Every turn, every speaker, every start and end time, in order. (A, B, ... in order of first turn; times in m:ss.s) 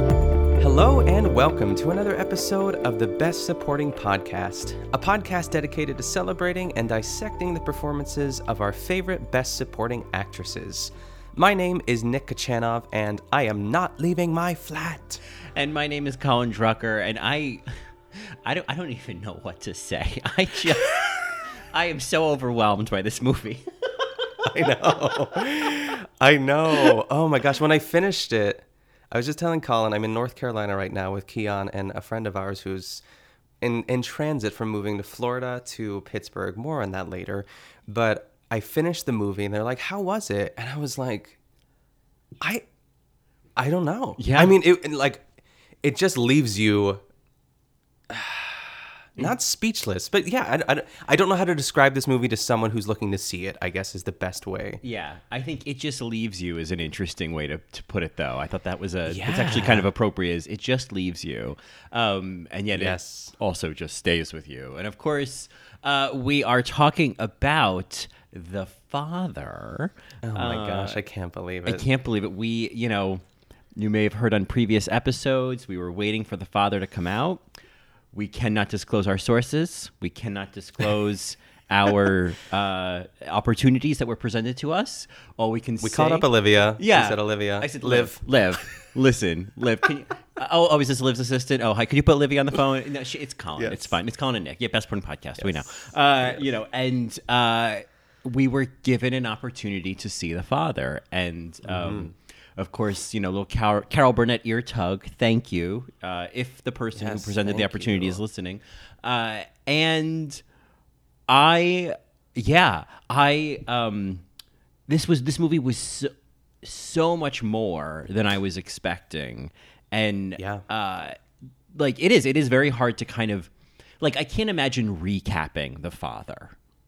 0:00.6-0:15.2 A
0:15.5-0:17.6 B
0:18.4-0:23.6 B
0:24.4-0:33.0 A
0:33.6-0:41.4 A
0:43.6-0:45.2 A
0:44.2-0:44.6 B
0:45.8-0:47.0 A
0:48.1-0:54.8 A
0:54.8-1:11.0 B
0:59.0-0:59.9 A
1:02.7-1:03.3 A
1:10.2-1:11.8 A
1:11.6-1:13.2 B
1:13.8-1:17.4 B
1:18.1-1:50.4 B
1:25.8-1:28.2 A
1:33.6-1:34.0 A
1:35.4-1:35.6 A
1:36.2-1:36.5 A
1:41.6-1:42.1 A
1:46.9-1:48.2 A
1:51.3-1:54.2 B
1:54.9-1:56.1 B
1:56.6-2:01.2 B
2:00.4-2:00.6 A
2:01.7-2:06.6 B